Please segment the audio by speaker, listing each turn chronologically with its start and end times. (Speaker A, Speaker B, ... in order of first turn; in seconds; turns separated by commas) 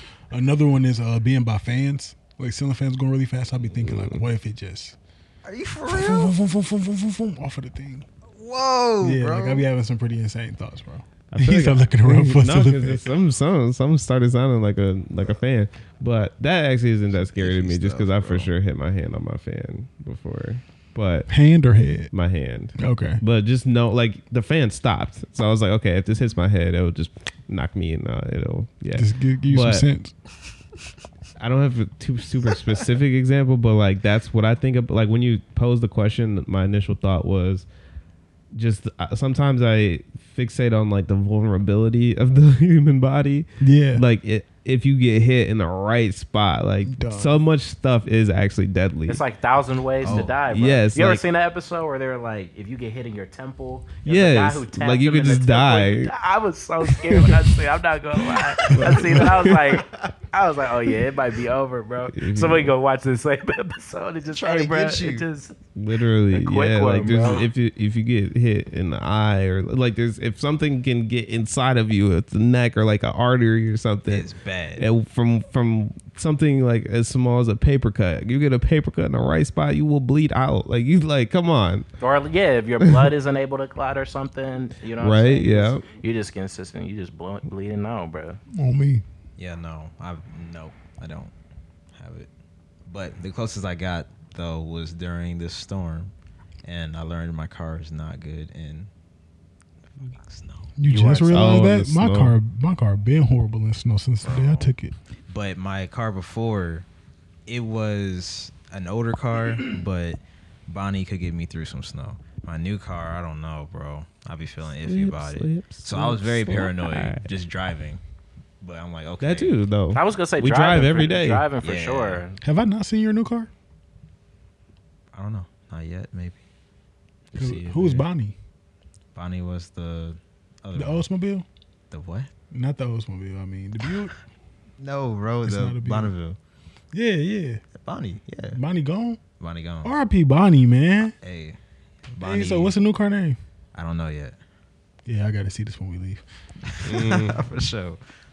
Speaker A: 0.3-5.0, Speaker B: 3.7-4.3, Speaker C: 5.4-6.3, Speaker A: 5.8-8.1, Speaker C: 8.3-9.7, Speaker A: 9.0-13.0, Speaker B: 11.3-21.3, Speaker C: 17.1-18.5, Speaker A: 21.3-22.1, Speaker B: 22.1-29.9, Speaker A: 22.8-23.2, Speaker A: 28.9-30.1, Speaker B: 31.4-37.6, Speaker B: 38.5-49.2, Speaker A: 43.6-44.0, Speaker A: 46.9-47.4, Speaker D: 49.1-65.5, Speaker C: 50.0-50.3, Speaker B: 50.0-51.2, Speaker B: 54.0-56.1, Speaker B: 56.9-57.5, Speaker B: 58.6-59.8, Speaker B: 62.1-62.7, Speaker C: 64.3-65.3, Speaker B: 65.8-81.9, Speaker D: 66.3-67.4, Speaker C: 74.1-74.9, Speaker D: 82.0-88.4, Speaker B: 82.8-83.1, Speaker B: 85.0-85.8, Speaker A: 88.5-89.0, Speaker C: 89.4-91.3, Speaker C: 91.9-92.3, Speaker C: 92.8-96.1, Speaker C: 96.6-98.9, Speaker C: 100.0-100.7, Speaker A: 100.8-104.9, Speaker D: 100.8-101.5, Speaker B: 101.3-102.4, Speaker C: 104.2-104.7, Speaker C: 105.3-106.8, Speaker C: 107.5-118.0, Speaker B: 114.8-117.3, Speaker C: 118.6-119.5, Speaker B: 119.2-121.5, Speaker D: 119.9-122.4, Speaker C: 121.6-122.2, Speaker A: 122.4-123.5, Speaker C: 125.1-126.4, Speaker C: 127.3-128.1, Speaker A: 127.3-128.3, Speaker C: 129.1-131.0, Speaker A: 130.8-131.4, Speaker C: 131.9-132.3, Speaker A: 132.5-134.1, Speaker C: 134.8-136.4, Speaker A: 135.4-136.1, Speaker A: 136.9-137.6, Speaker C: 137.8-138.6, Speaker A: 138.5-139.2, Speaker C: 139.4-139.9, Speaker A: 139.8-141.1, Speaker C: 141.2-141.6, Speaker C: 142.1-142.8, Speaker A: 142.2-143.4, Speaker C: 143.7-144.4, Speaker A: 145.1-146.2, Speaker C: 146.6-148.0, Speaker B: 146.8-147.4